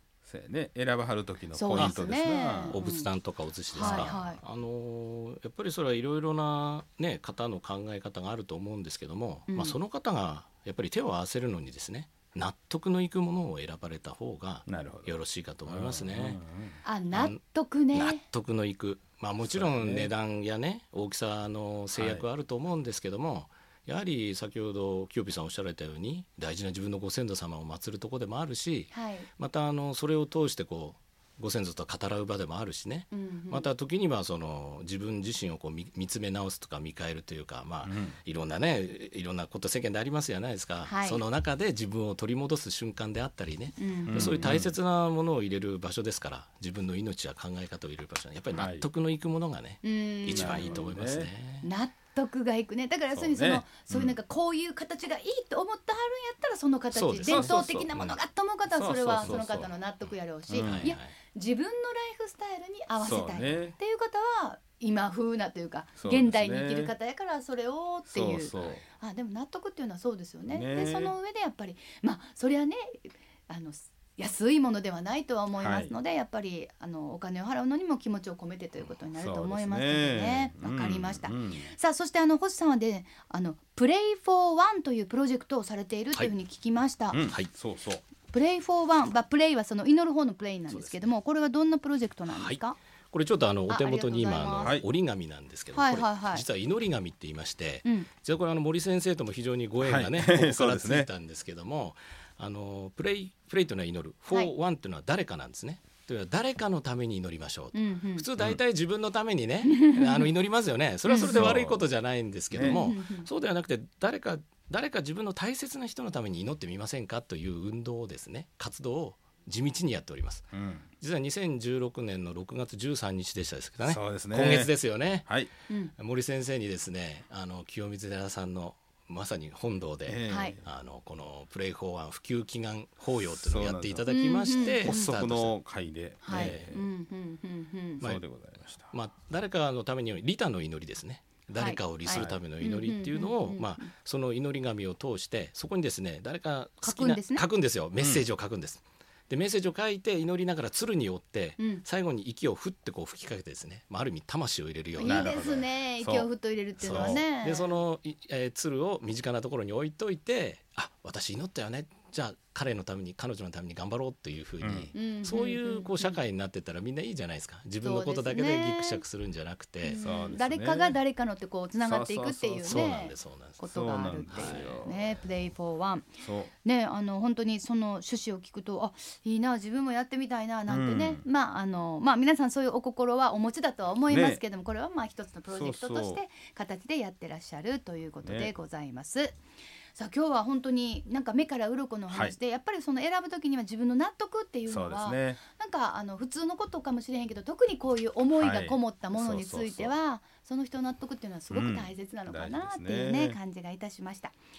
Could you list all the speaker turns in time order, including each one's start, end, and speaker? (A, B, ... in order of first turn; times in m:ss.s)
0:00.2-0:02.8 A
0:01.5-0:03.1 B
0:01.8-0:02.0 C
0:02.7-0:16.4 C
0:03.7-0:04.4 B
0:03.7-0:04.3 A
0:09.5-0:09.8 B
0:14.7-0:16.8 A
0:16.8-0:18.2 B
0:17.1-0:17.4 C
0:17.9-0:51.7 C
0:19.4-0:20.1 A
0:21.9-0:22.2 A
0:28.9-0:29.3 B
0:33.1-0:33.7 B
0:37.8-0:38.2 A
0:40.8-0:41.2 B
0:43.8-0:44.5 B
0:44.1-0:44.7 A
0:48.5-0:48.9 A
0:49.8-0:50.9 B
0:50.3-0:51.3 A
0:51.6-1:27.2 B
0:53.1-0:54.2 A
0:56.9-0:58.2 C
0:57.3-0:57.9 A
0:58.7-0:59.7 A
1:00.5-1:00.9 A
1:00.5-1:01.1 C
1:03.0-1:03.8 A
1:06.0-1:06.9 A
1:08.1-1:08.8 A
1:10.5-1:11.1 A
1:15.6-1:15.9 A
1:19.2-1:21.7 A
1:27.1-1:28.0 A
1:28.3-1:32.8 B
1:30.7-1:31.1 C
1:32.3-2:00.5 C
1:33.7-1:34.8 B
1:34.6-1:34.8 A
1:35.7-1:36.4 B
1:39.8-1:41.1 A
1:47.7-1:48.2 B
1:49.6-1:50.3 B
1:51.1-1:51.5 B
1:51.2-1:51.9 A
1:52.5-1:52.8 A
1:52.6-1:53.3 B
2:00.5-2:00.9 A
2:01.0-2:05.4 C
2:03.8-2:04.7 A
2:05.2-2:05.5 A
2:06.0-2:15.6 C
2:10.0-2:10.6 A
2:10.3-2:10.6 B
2:13.4-2:14.1 A
2:14.1-2:15.2 B
2:14.6-2:16.9 A
2:16.2-2:18.0 B
2:16.3-2:16.7 C
2:18.0-2:18.9 A
2:18.8-2:35.4 C
2:21.5-2:23.9 B
2:22.1-2:22.4 A
2:26.8-2:27.4 B
2:28.0-2:28.3 A
2:31.6-2:31.8 B
2:35.0-2:37.7 B
2:35.0-2:36.3 A
2:36.8-2:37.2 A
2:36.8-2:50.0 C
2:44.6-2:44.9 A
2:44.9-2:46.2 B
2:47.8-2:49.0 B
2:49.8-2:56.1 B
2:50.0-2:51.0 A
2:51.8-2:53.0 A
2:52.6-2:53.6 C
2:53.7-2:55.0 A
2:54.3-2:54.7 C
2:56.2-2:56.5 A
2:56.6-3:09.3 B
3:00.7-3:01.2 A
3:04.1-3:04.4 A
3:05.5-3:06.2 A
3:08.2-3:08.5 A
3:09.9-3:24.3 B
3:12.1-3:12.4 A
3:14.6-3:15.4 A
3:18.3-3:19.9 A
3:21.5-3:23.4 A